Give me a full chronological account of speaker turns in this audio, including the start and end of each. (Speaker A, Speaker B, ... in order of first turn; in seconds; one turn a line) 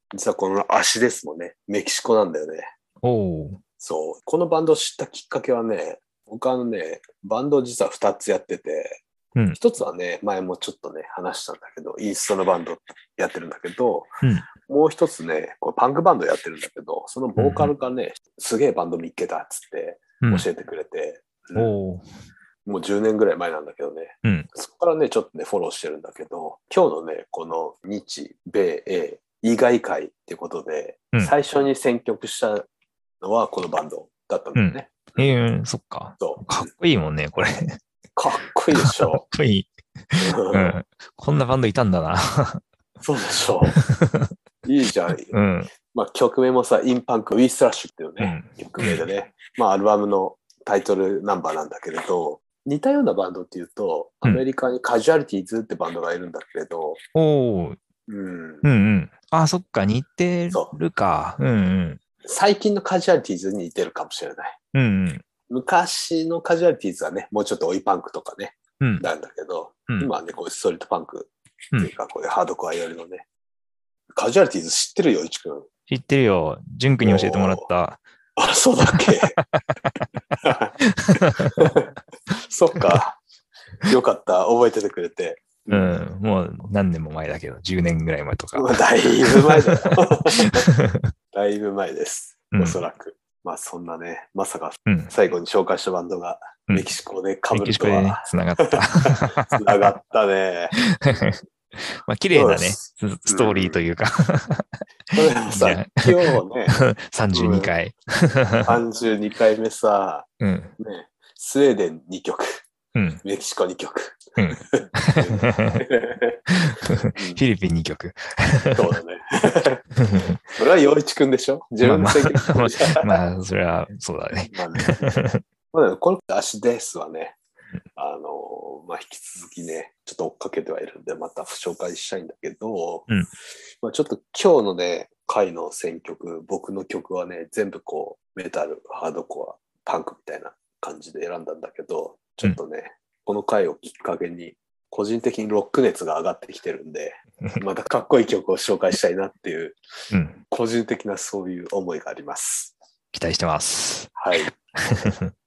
Speaker A: 0.1-2.7
Speaker B: 3.0-3.6
Speaker A: 3.8-9.0
Speaker A: 9.6-21.7
Speaker B: 17.4-17.7
Speaker B: 20.2-20.5
Speaker B: 21.6-22.1
Speaker A: 22.7-32.7
Speaker A: 33.2-35.3
Speaker B: 34.5-37.8
Speaker A: 36.2-36.7
Speaker A: 38.2-39.2
Speaker B: 38.8-42.6
Speaker A: 40.2-40.8
Speaker A: 43.0-43.8
Speaker B: 43.6-44.3
Speaker A: 44.6-45.3
Speaker B: 45.3-45.7
Speaker A: 45.9-57.0
Speaker B: 48.2-49.0
Speaker B: 57.1-57.8
Speaker A: 58.1-58.7
Speaker B: 58.6-62.0
Speaker A: 60.5-60.8
Speaker A: 62.2-64.6
Speaker B: 64.7-65.2
Speaker A: 65.5-73.2
Speaker B: 68.8-69.1
Speaker A: 74.2-75.7
Speaker B: 75.9-78.0
Speaker A: 77.0-77.7
Speaker A: 78.4-79.4
Speaker B: 78.9-80.0
Speaker A: 80.4-83.2
Speaker B: 81.0-81.7
Speaker A: 83.8-86.0
Speaker B: 85.7-91.1
Speaker A: 88.6-90.7
Speaker A: 91.3-101.2
Speaker B: 92.5-92.8
Speaker B: 94.9-95.1
Speaker B: 97.5-99.8
Speaker B: 100.8-106.1
Speaker A: 102.3-103.8
Speaker A: 105.1-106.8
Speaker B: 106.8-108.7
Speaker A: 107.3-107.7
Speaker A: 108.6-110.3
Speaker B: 110.4-110.7
Speaker A: 110.8-112.6
Speaker B: 113.0-113.2
Speaker A: 113.2-116.4
Speaker B: 114.4-115.8
Speaker B: 116.5-118.9
Speaker A: 117.1-117.4
Speaker A: 118.7-119.8
Speaker B: 120.0-120.4
Speaker A: 120.5-123.2
Speaker B: 121.8-125.4
Speaker A: 124.5-125.2
Speaker A: 125.7-127.4
Speaker A: 128.0-133.1
Speaker A: 133.8-149.8
Speaker B: 150.1-150.4
Speaker A: 150.5-152.7
Speaker B: 153.1-154.2
Speaker A: 154.2-155.2
Speaker B: 154.9-155.3